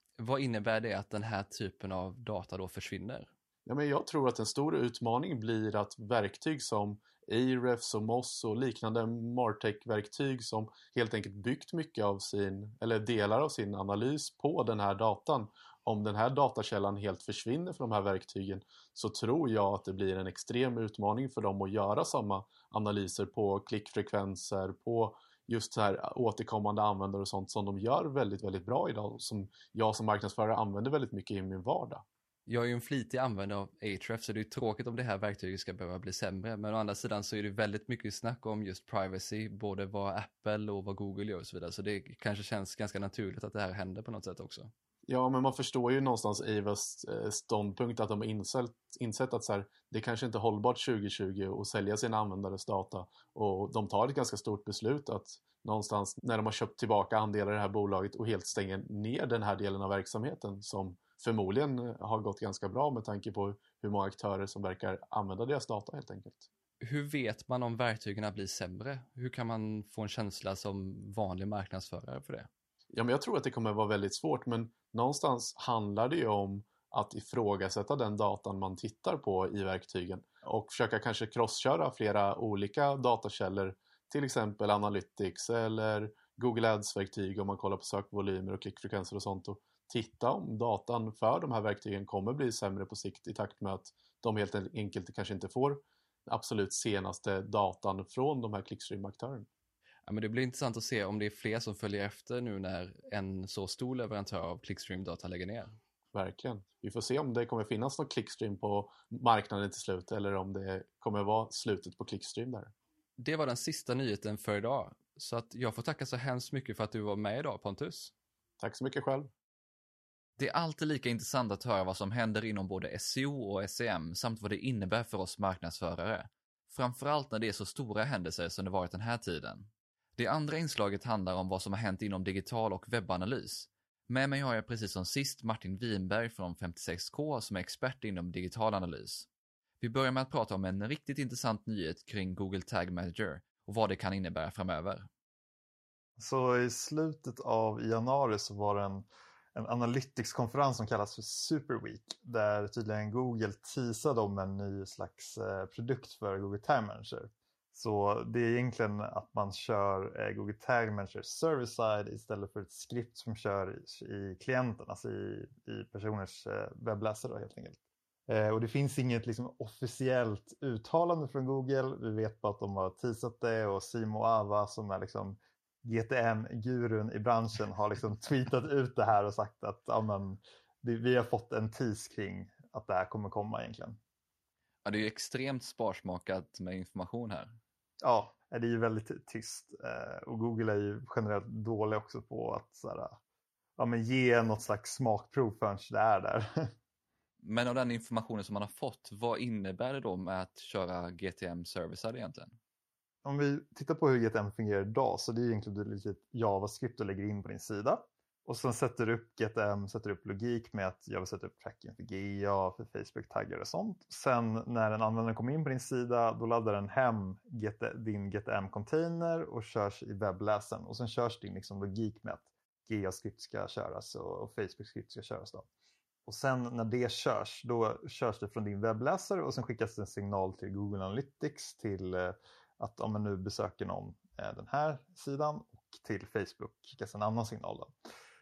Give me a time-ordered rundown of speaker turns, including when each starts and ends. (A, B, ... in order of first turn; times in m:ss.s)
0:00.2-0:03.3 A
0:03.7-0:32.0 B
0:32.5-0:44.7 A
0:45.1-1:06.5 B
1:06.8-1:12.5 A
1:12.9-1:39.5 B
1:40.1-1:45.8 A
1:46.1-1:52.7 B
1:53.2-1:58.1 A
1:58.6-1:59.3 B
2:00.4-2:19.3 A
2:19.8-2:25.1 A
2:26.2-3:04.0 C
3:04.8-3:07.6 A
3:08.0-3:13.2 C
3:13.8-3:16.7 C
3:17.4-3:22.6 A
3:23.2-3:45.7 C
3:46.3-3:57.9 C